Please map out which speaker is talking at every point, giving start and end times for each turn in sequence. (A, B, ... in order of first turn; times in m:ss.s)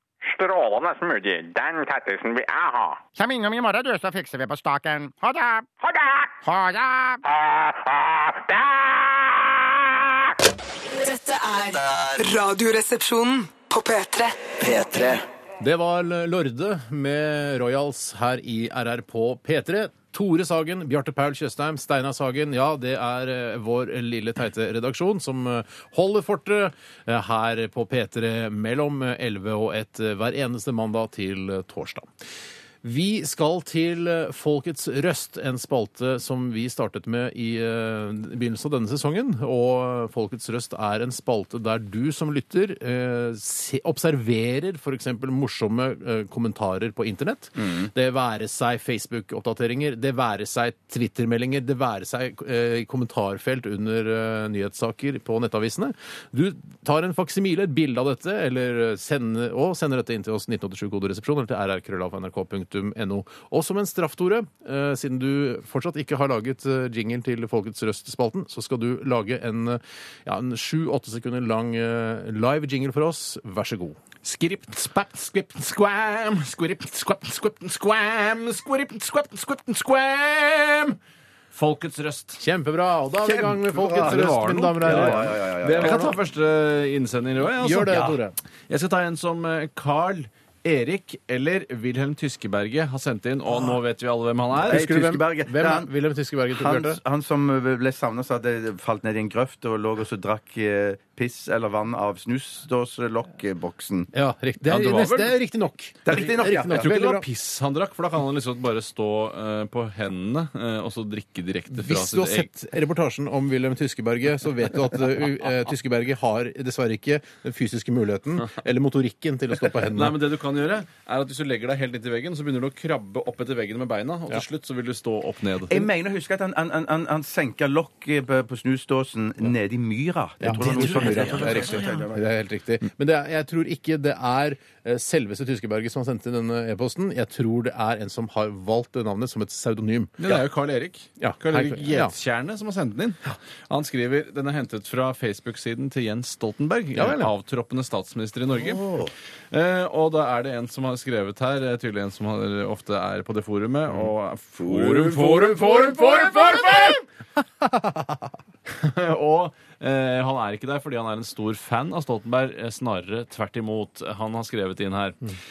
0:00.2-0:03.0 A
0:03.2-0:05.7 B
0:05.8-0:06.3 A
0:06.4-0:07.2 B
0:07.2-0:10.0 A
0:10.8-0:15.2 C
0:15.6-0:32.1 D
0:32.8-1:14.0 D
0:47.6-0:47.9 E
1:14.2-1:21.0 F
1:21.5-1:22.4 F
1:22.4-1:26.2 D
1:23.2-1:26.1 E
1:23.9-1:28.0 F
1:27.6-1:28.3 D
1:27.9-1:28.2 E
1:28.7-1:34.9 F
1:34.6-1:35.9 E
1:34.6-1:37.0 D
1:36.5-1:44.1 E
1:44.1-1:47.2 D
1:44.7-1:45.4 F
1:46.0-1:47.0 E
1:46.7-1:52.5 F
1:51.7-2:00.2 D
1:59.8-2:05.8 F
2:05.7-2:12.2 E
2:10.4-2:20.2 D
2:10.6-2:12.0 F
2:20.2-2:29.0 F
2:21.2-2:22.1 D
2:26.9-2:27.3 D
2:28.6-2:29.1 E
2:29.5-2:37.0 F
2:34.6-2:36.5 E
2:37.6-2:38.1 D
2:38.7-2:45.4 F